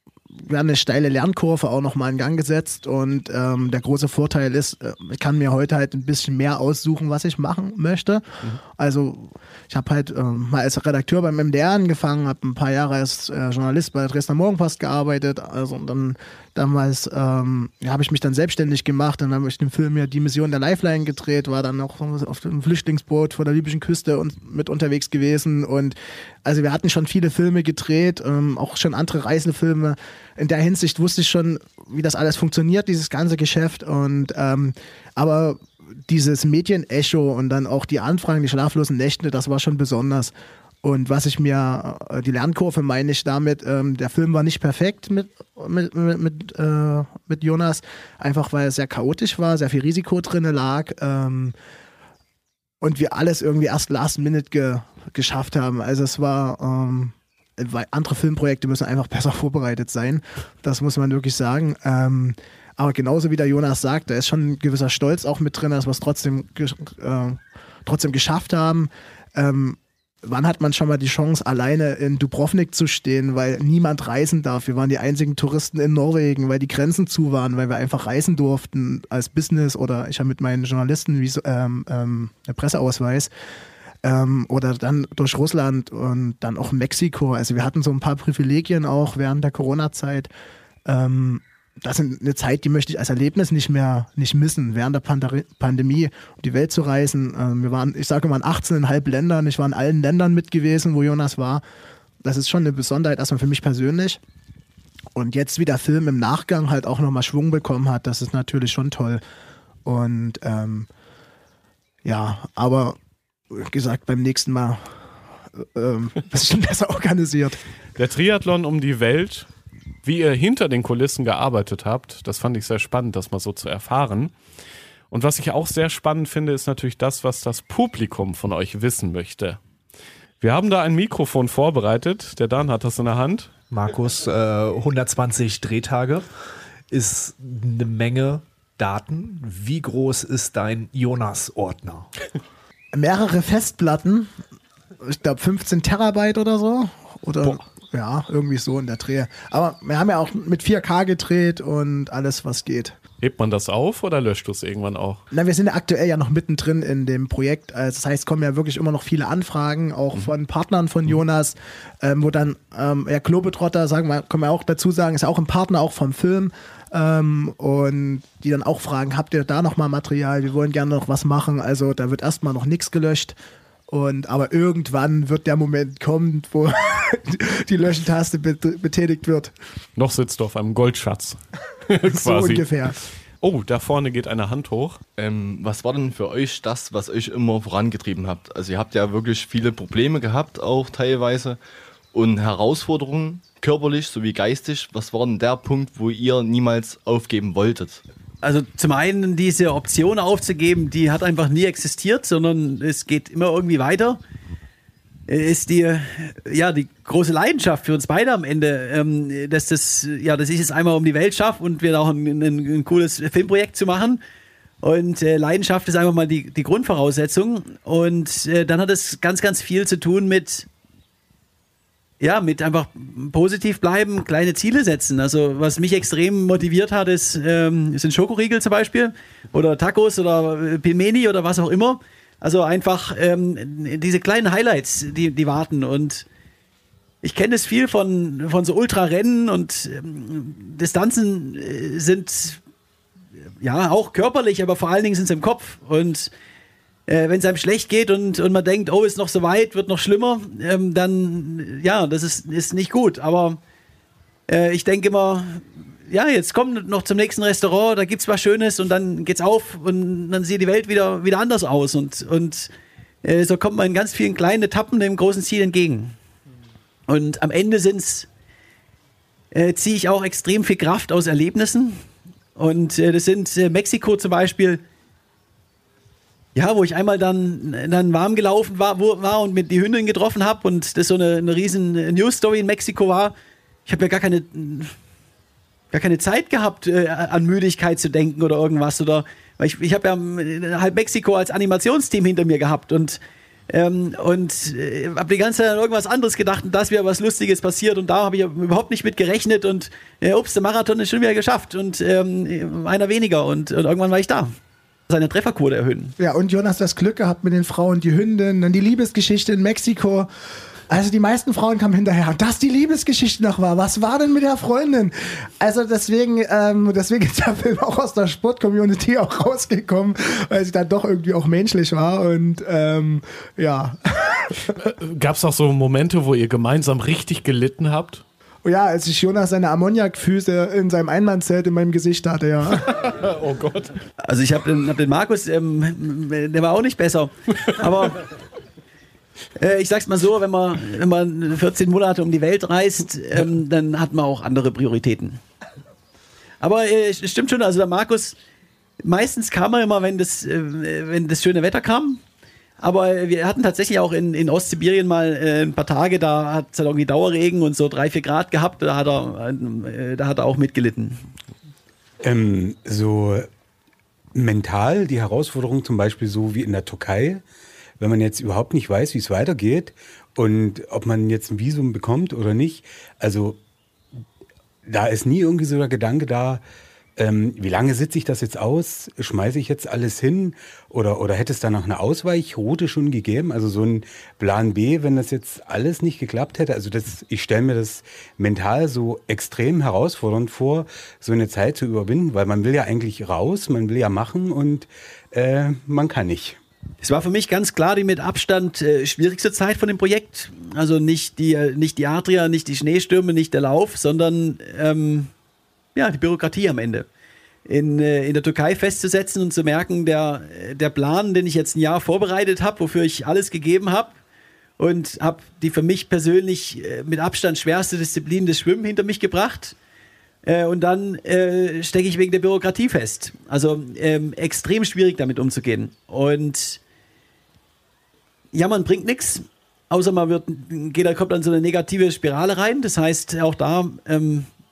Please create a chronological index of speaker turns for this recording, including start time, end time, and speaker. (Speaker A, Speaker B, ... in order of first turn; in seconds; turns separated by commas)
Speaker A: 0.3-51.5, Speaker A: 52.8-83.3, Speaker A: 84.0-90.3, Speaker A: 90.8-101.6, Speaker A: 102.2-104.2, Speaker A: 105.1-109.2, Speaker A: 109.8-110.9, Speaker A: 112.0-113.0, Speaker A: 113.5-115.0, Speaker A: 115.5-117.6, Speaker B: 118.0-119.5, Speaker B: 120.0-124.3, Speaker B: 125.1-129.6, Speaker B: 130.4-133.5, Speaker C: 133.7-136.2, Speaker C: 136.9-142.1, Speaker A: 142.9-144.3, Speaker A: 145.0-153.0, Speaker B: 153.2-155.2, Speaker A: 155.3-173.3, Speaker A: 173.9-179.5, Speaker B: 180.0-181.4, Speaker B: 181.9-182.7, Speaker A: 182.0-182.9, Speaker B: 183.4-185.0, Speaker D: 185.2-191.6, Speaker D: 192.1-198.0, Speaker E: 198.4-204.2, Speaker E: 205.3-214.2, Speaker E: 214.8-220.7, Speaker E: 222.2-236.2, Speaker E: 237.2-242.6, Speaker E: 243.6-246.3, Speaker E: 247.1-253.6, Speaker E: 254.5-262.7, Speaker E: 263.2-266.1, Speaker E: 267.1-268.3, Speaker E: 269.5-272.0, Speaker E: 272.6-274.8, Speaker E: 276.5-283.3, Speaker E: 283.9-284.9, Speaker E: 285.9-304.5, Speaker E: 305.1-306.1, Speaker A: 306.2-310.3, Speaker A: 310.9-324.5, Speaker B: 324.7-328.2, Speaker A: 328.6-332.9, Speaker B: 332.9-333.9, Speaker E: 334.2-338.2, Speaker E: 339.6-345.4, Speaker E: 346.6-348.4, Speaker E: 349.0-352.2, Speaker E: 352.8-361.2, Speaker F: 362.2-363.5, Speaker F: 364.3-367.4, Speaker F: 368.0-373.6, Speaker F: 374.9-376.6, Speaker F: 377.2-396.6, Speaker E: 397.0-405.3, Speaker E: 405.9-407.1, Speaker E: 407.6-414.1, Speaker E: 414.8-419.7, Speaker E: 420.4-426.8, Speaker E: 428.5-434.5